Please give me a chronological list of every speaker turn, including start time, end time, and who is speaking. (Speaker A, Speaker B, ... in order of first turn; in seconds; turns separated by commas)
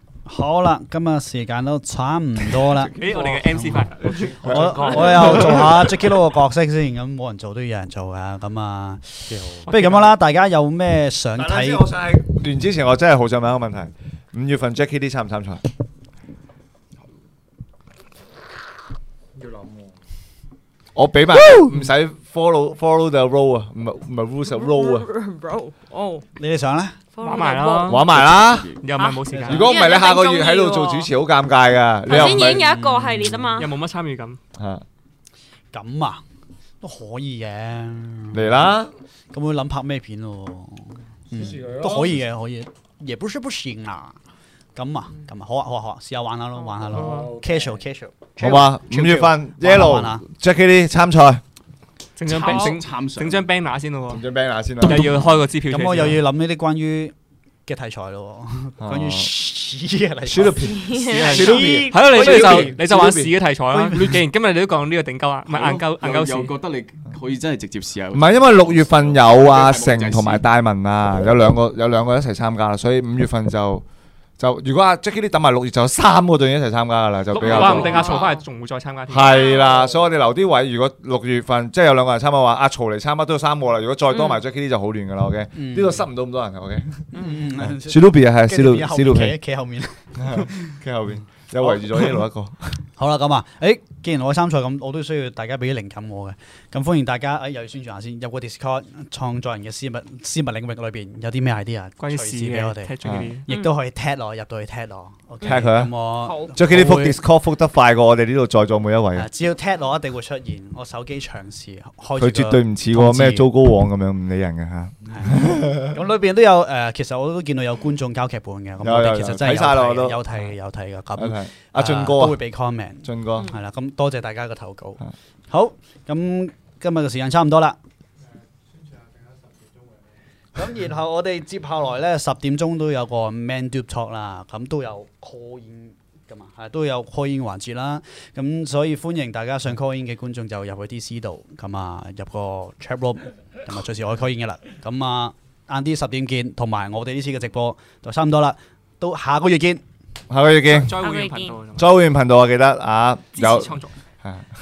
Speaker A: 0.3-11.9, Speaker B: 3.0-5.1, Speaker C: 3.0-5.9, Speaker D: 4.4-5.4, Speaker C: 9.3-10.1, Speaker B: 9.7-10.1, Speaker D: 11.3-15.7, Speaker C: 19.4-19.9, Speaker D: 20.9-25.1, Speaker E: 24.5-26.2, Speaker A: 26.4-27.0, Speaker E: 27.2-28.1, Speaker B: 27.2-28.1, Speaker D: 27.9-28.7, Speaker F: 28.1-28.8, Speaker B: 28.8-29.7, Speaker E: 29.0-31.1, Speaker A: 29.3-29.7, Speaker D: 29.5-32.7, Speaker E: 32.1-33.7, Speaker A: 32.1-33.5, Speaker B: 33.6-34.4, Speaker D: 34.6-34.8, Speaker A: 35.7-36.2, Speaker A: 36.8-38.7, Speaker D: 38.3-38.9, Speaker A: 39.3-44.2, Speaker C: 41.3-42.2, Speaker A: 44.8-50.2, Speaker C: 46.9-47.8, Speaker D: 48.4-51.4, Speaker B: 52.2-54.2, Speaker F: 52.3-53.5, Speaker D: 54.1-55.2, Speaker B: 54.8-56.2, Speaker F: 54.8-55.2, Speaker A: 55.7-57.1, Speaker A: 57.7-63.0, Speaker D: 58.8-59.3, Speaker D: 60.3-63.3, Speaker E: 60.6-62.0, Speaker B: 61.2-66.5, Speaker A: 63.7-64.2, Speaker F: 65.5-70.5, Speaker D: 68.1-73.8, Speaker D: 74.4-78.2, Speaker B: 77.3-79.6, Speaker E: 77.4-78.4, Speaker D: 79.1-89.4, Speaker E: 79.2-79.9, Speaker E: 84.1-84.4, Speaker A: 85.5-86.0, Speaker E: 87.1-87.5, Speaker A: 87.1-90.8, Speaker D: 90.2-92.8, Speaker A: 91.6-92.1, Speaker A: 93.0-107.2, Speaker B: 102.0-103.5, Speaker D: 103.0-103.4, Speaker E: 103.5-103.7, Speaker D: 105.4-105.9, Speaker E: 106.2-106.5, Speaker D: 106.5-109.3, Speaker A: 109.2-113.5, Speaker D: 112.2-116.0, Speaker A: 115.1-127.8, Speaker D: 118.8-120.2, Speaker D: 121.2-122.4, Speaker D: 123.0-123.5, Speaker A: 130.6-149.8, Speaker D: 150.3-151.0, Speaker B: 150.7-151.9, Speaker E: 151.0-151.6, Speaker D: 151.8-154.5, Speaker B: 153.3-153.9